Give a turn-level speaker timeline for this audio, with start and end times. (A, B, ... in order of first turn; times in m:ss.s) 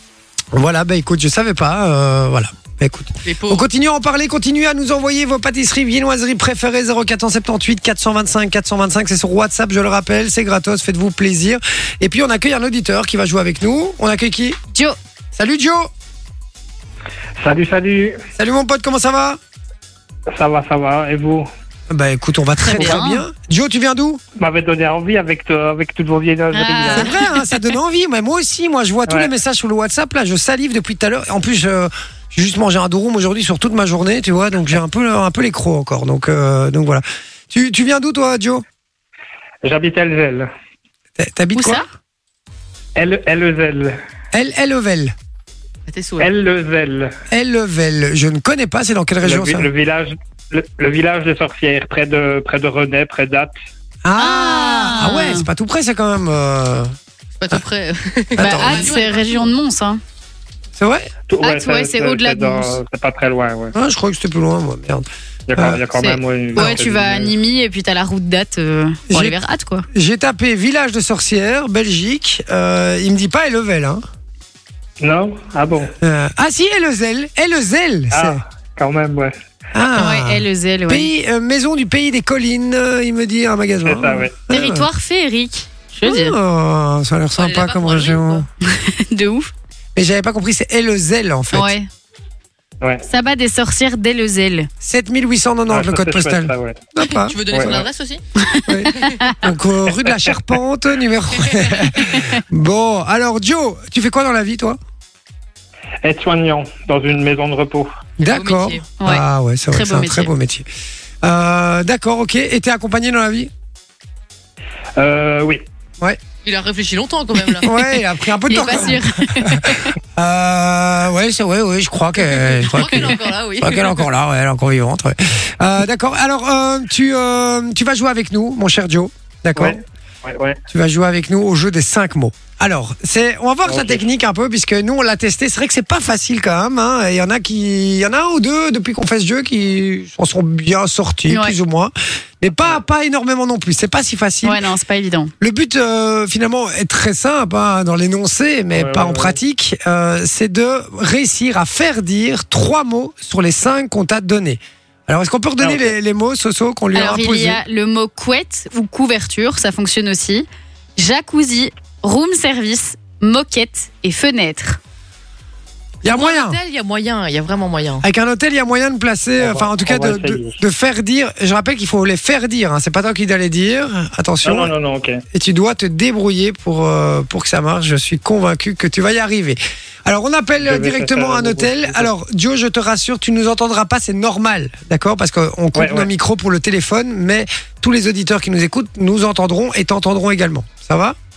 0:00.5-0:14.6 A
0:03.2-0:03.6 B
0:15.4-0:15.9 A
0:17.4-0:18.2 C
0:18.4-0:19.4 A
0:20.3-0:21.5 C
0:21.9-0:24.2 A
0:22.6-0:23.2 D
0:24.4-0:27.2 C
0:26.5-0:27.1 D
0:26.8-0:38.6 A
0:39.6-0:40.5 C
0:41.2-0:41.8 A
0:41.6-0:41.9 D
0:43.0-0:44.0 C
0:44.3-0:45.1 A
0:45.9-0:46.3 B
0:46.2-0:47.1 C
0:47.3-0:49.7 A
0:49.2-0:53.5 C
0:54.0-0:57.0 A
0:54.2-0:55.5 D
0:57.4-0:59.5 B
0:58.4-0:59.0 A
0:58.4-1:00.0 D
1:00.8-1:01.1 A
1:01.3-1:03.7 C
1:01.4-1:02.8 D
1:03.8-1:05.8 A
1:05.5-1:07.4 C
1:05.9-1:09.9 D
1:09.1-1:09.4 A
1:09.9-1:14.0 A
1:15.0-1:15.9 C
1:16.0-1:18.4 A
1:18.1-1:19.4 C
1:19.8-1:24.9 A
1:19.9-1:21.1 D
1:23.8-1:24.4 C
1:24.5-1:26.4 D
1:26.0-1:28.5 A
1:27.4-1:28.5 B
1:28.6-1:29.5 D
1:30.0-1:31.7 A
1:31.5-1:31.9 D
1:33.1-1:34.7 D
1:34.8-1:37.8 A
1:35.7-1:36.8 C
1:37.0-1:38.2 B
1:37.5-1:37.8 C
1:38.4-1:39.4 D
1:38.7-1:44.8 A
1:38.9-1:39.2 B
1:40.0-1:40.4 C
1:46.0-1:47.9 C
1:48.2-1:50.7 A
1:48.2-1:48.9 B
1:49.0-1:50.3 D
1:51.2-1:53.5 A
1:55.0-1:55.6 C
1:56.4-1:57.8 B
1:57.6-2:09.8 A
1:58.5-2:00.0 D
2:02.2-2:04.1 B
2:09.6-2:10.6 C
2:10.7-2:24.6 A
2:13.6-2:14.0 C
2:21.3-2:21.6 D
2:24.4-2:25.3 D
2:25.4-2:37.6 A
2:28.8-2:29.4 C
2:35.6-2:35.9 C
2:36.9-2:40.5 D
2:41.0-2:44.8 D
2:46.0-2:46.6 A
2:46.1-2:48.0 B
2:48.0-2:54.7 A
2:49.4-2:50.6 C
2:54.4-2:55.2 C
2:55.3-3:11.2 A
3:00.6-3:02.1 C
3:05.8-3:06.1 C